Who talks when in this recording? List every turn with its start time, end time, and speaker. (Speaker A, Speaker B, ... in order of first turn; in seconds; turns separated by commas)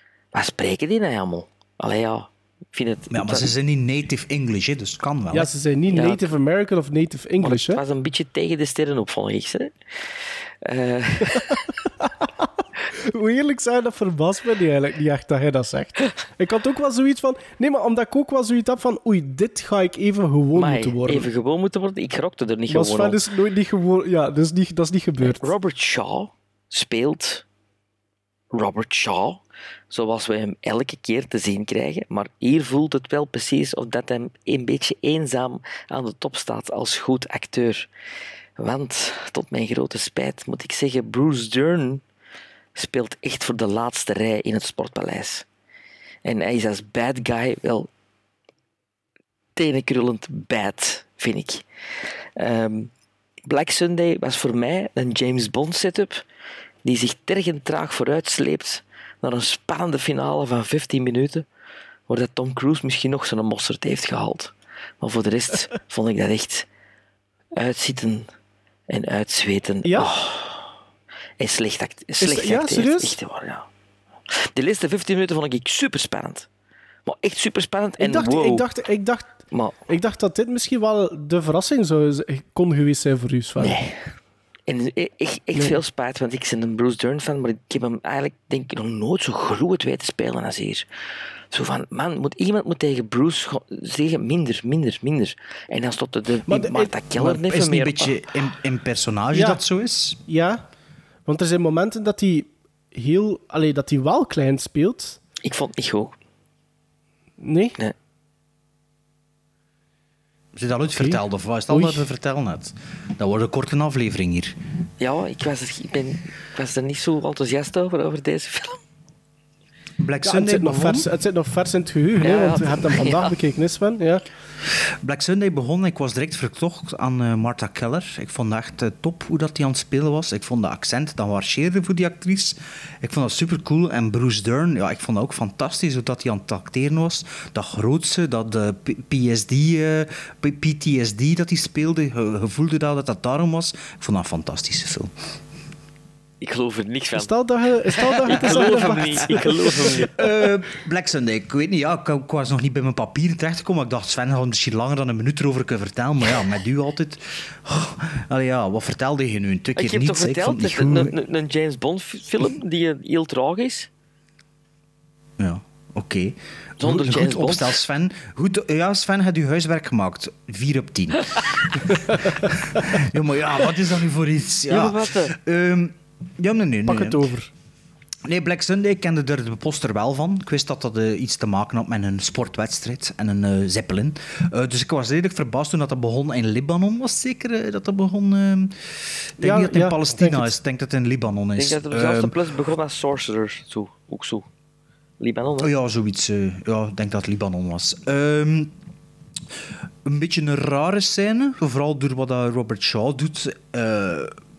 Speaker A: 0.3-3.5, Speaker B: 3.1-5.5, Speaker C: 5.3-7.8, Speaker A: 5.9-6.3, Speaker A: 7.4-11.6, Speaker C: 13.1-21.3, Speaker A: 20.5-23.2, Speaker C: 22.7-25.5, Speaker A: 25.2-27.4, Speaker A: 28.5-37.9, Speaker A: 38.6-42.0, Speaker A: 42.8-45.5, Speaker A: 46.2-47.9, Speaker A: 49.5-51.6, Speaker A: 52.4-52.9, Speaker A: 53.5-56.2, Speaker A: 56.8-61.5, Speaker A: 62.1-66.7, Speaker A: 67.5-68.3, Speaker A: 68.9-70.7, Speaker C: 69.8-70.1, Speaker A: 71.4-73.6, Speaker C: 72.2-73.2, Speaker A: 74.5-76.5, Speaker A: 77.0-78.6, Speaker C: 78.0-79.3, Speaker A: 79.5-79.8, Speaker C: 79.9-83.8, Speaker A: 83.6-84.0, Speaker A: 84.7-90.9, Speaker A: 91.5-98.2, Speaker C: 96.5-96.9, Speaker B: 97.1-100.2, Speaker C: 99.3-99.6, Speaker C: 100.3-100.6, Speaker C: 101.2-105.2, Speaker A: 105.4-106.1, Speaker C: 107.4-107.8, Speaker B: 110.5-114.5, Speaker C: 110.9-112.0, Speaker A: 115.0-118.8, Speaker B: 120.0-121.1, Speaker C: 120.2-124.2, Speaker A: 122.2-123.3, Speaker B: 125.0-145.1, Speaker A: 146.4-147.3, Speaker C: 147.2-150.0, Speaker A: 147.9-150.1, Speaker B: 148.5-148.9, Speaker B: 150.1-161.1, Speaker A: 159.8-163.9, Speaker B: 165.4-177.3, Speaker A: 166.8-167.8, Speaker A: 174.7-175.3, Speaker C: 176.8-177.5, Speaker B: 178.2-188.7, Speaker B: 189.4-192.3, Speaker C: 189.4-190.5, Speaker A: 191.6-194.5, Speaker A: 195.2-195.7, Speaker B: 195.6-198.7, Speaker B: 200.0-204.3